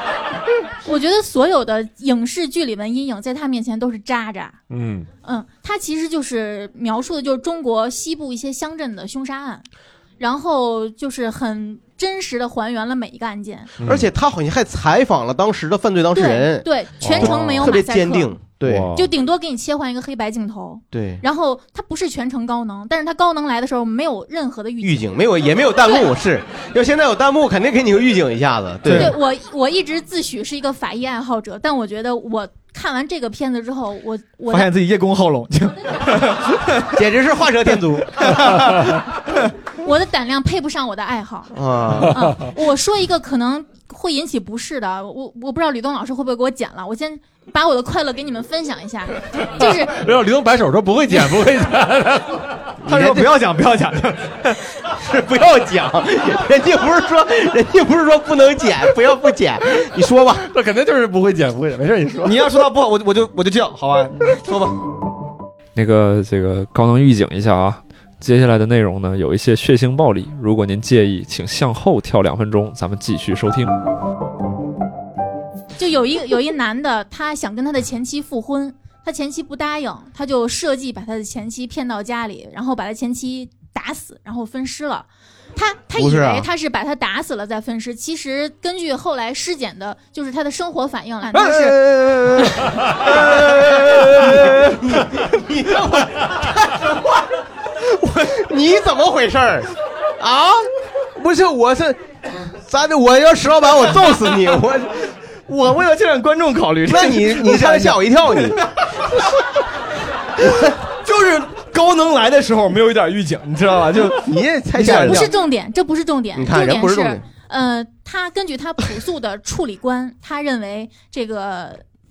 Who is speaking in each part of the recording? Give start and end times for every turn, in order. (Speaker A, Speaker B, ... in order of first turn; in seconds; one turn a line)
Speaker A: 0.8-4.6
Speaker B: 4.7-5.1
Speaker A: 5.2-9.7
Speaker A: 10.2-13.7
Speaker B: 13.8-14.1
Speaker C: 13.8-18.9
Speaker A: 16.1-18.4
Speaker B: 17.0-17.8
Speaker B: 18.6-19.1
Speaker A: 18.9-25.0
Speaker C: 20.9-21.2
Speaker C: 24.8-29.1
Speaker A: 25.8-26.1
Speaker D: 28.9-29.1
Speaker A: 28.9-34.7
Speaker D: 34.5-36.9
Speaker C: 37.0-38.4
Speaker D: 38.2-38.8
Speaker A: 39.8-41.5
Speaker C: 41.5-42.1
Speaker A: 42.1-50.0
Speaker B: 49.6-52.7
Speaker C: 52.9-53.3
Speaker D: 52.9-54.5
Speaker C: 54.9-60.5
Speaker B: 60.5-62.5
Speaker D: 62.2-64.3
Speaker C: 64.4-64.8
Speaker E: 65.8-73.7
Speaker A: 75.8-91.8
Speaker C: 86.0-86.5
Speaker D: 91.5-92.2
Speaker C: 91.9-97.0
Speaker D: 94.2-94.6
Speaker C: 97.9-102.0
Speaker C: 102.5-105.1
Speaker D: 105.5-108.0
Speaker C: 106.9-108.6
Speaker D: 111.0-115.3
Speaker C: 114.2-115.3
Speaker A: 114.9-121.8
Speaker C: 116.4-117.2